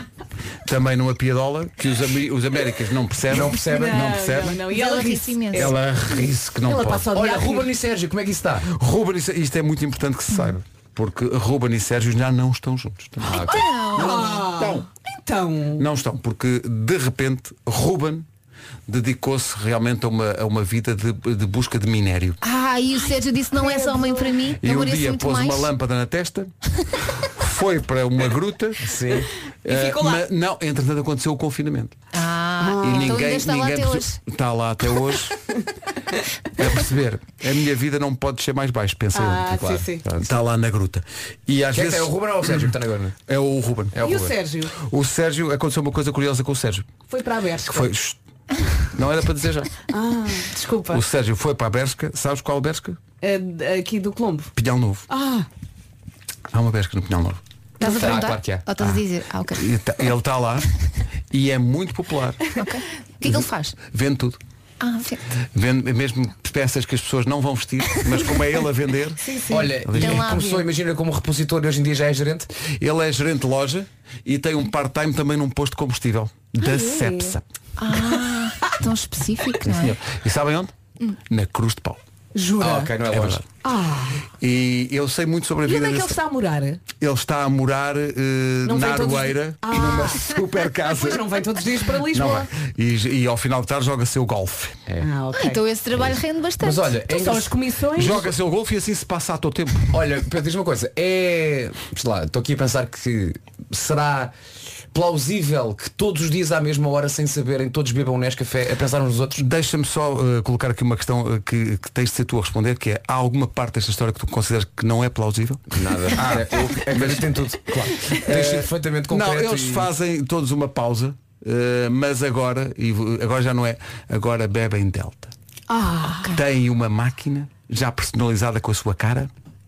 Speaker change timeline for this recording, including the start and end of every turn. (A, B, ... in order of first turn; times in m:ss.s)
0:00.7-0:04.6 A
0:03.3-0:04.4 B
0:03.6-0:05.8 C
0:04.7-0:05.7 D
0:05.5-0:07.1 A
0:06.6-0:07.7 C
0:07.1-0:08.7 B
0:08.6-0:14.9 A
0:13.2-0:13.7 B
0:13.5-0:14.6 D
0:13.5-0:15.8 C
0:15.8-0:18.3 A
0:18.9-0:22.4 A
0:22.4-0:25.7 D
0:23.6-0:24.4 C
0:24.6-0:26.5 A
0:27.3-0:28.9 A
0:28.8-0:29.3 B
0:29.6-0:32.0 A
0:29.7-0:30.2 C
0:32.1-0:34.2 D
0:32.6-0:33.2 C
0:32.8-0:35.4 A
0:36.6-0:39.6 A
0:39.1-0:40.0 C
0:39.5-0:40.3 B
0:40.1-0:42.7 A
0:41.7-0:43.2 B
0:43.3-0:46.9 A
0:44.0-0:44.3 B
0:44.0-0:44.7 C
0:47.1-0:47.9 C
0:47.7-0:48.2 A
0:48.9-0:49.7 A
0:49.9-0:51.0 C
0:50.9-0:53.0 A
0:53.2-0:54.5 C
0:54.6-0:55.0 A
0:55.1-0:55.5 C
0:56.5-0:57.4 A
0:57.8-0:58.2 C
0:57.8-0:59.7 D
0:57.9-0:58.6 B
0:59.5-1:00.7 A
1:01.3-1:02.4 A
1:02.6-1:03.8 D
1:03.2-1:04.4 A
1:04.8-1:05.2 D
1:05.5-1:09.2 A
1:09.2-1:09.8 C
1:09.5-1:12.5 B
1:09.8-1:10.4 A
1:10.0-1:10.7 D
1:12.6-1:17.4 A
1:16.6-1:17.4 C
1:17.8-1:20.0 D
1:19.6-1:20.7 A
1:21.3-1:22.0 A
1:22.4-1:22.9 C
1:22.6-1:23.4 B
1:23.1-1:23.4 A
1:23.6-1:24.3 C
1:24.4-1:26.2 A
1:25.6-1:26.8 C
1:27.0-1:31.4 A
1:28.6-1:30.3 C
1:30.9-1:32.5 C
1:32.0-1:34.8 A
1:35.0-1:35.6 C
1:35.4-1:37.0 D
1:36.0-1:37.6 B
1:37.1-1:38.3 C
1:37.9-1:39.9 A
1:39.9-1:44.3 B
1:44.9-1:49.4 B
1:49.4-1:57.5 A
1:55.7-1:59.9 B
1:58.0-2:05.3 A
2:05.7-2:06.4 C
2:06.2-2:09.3 A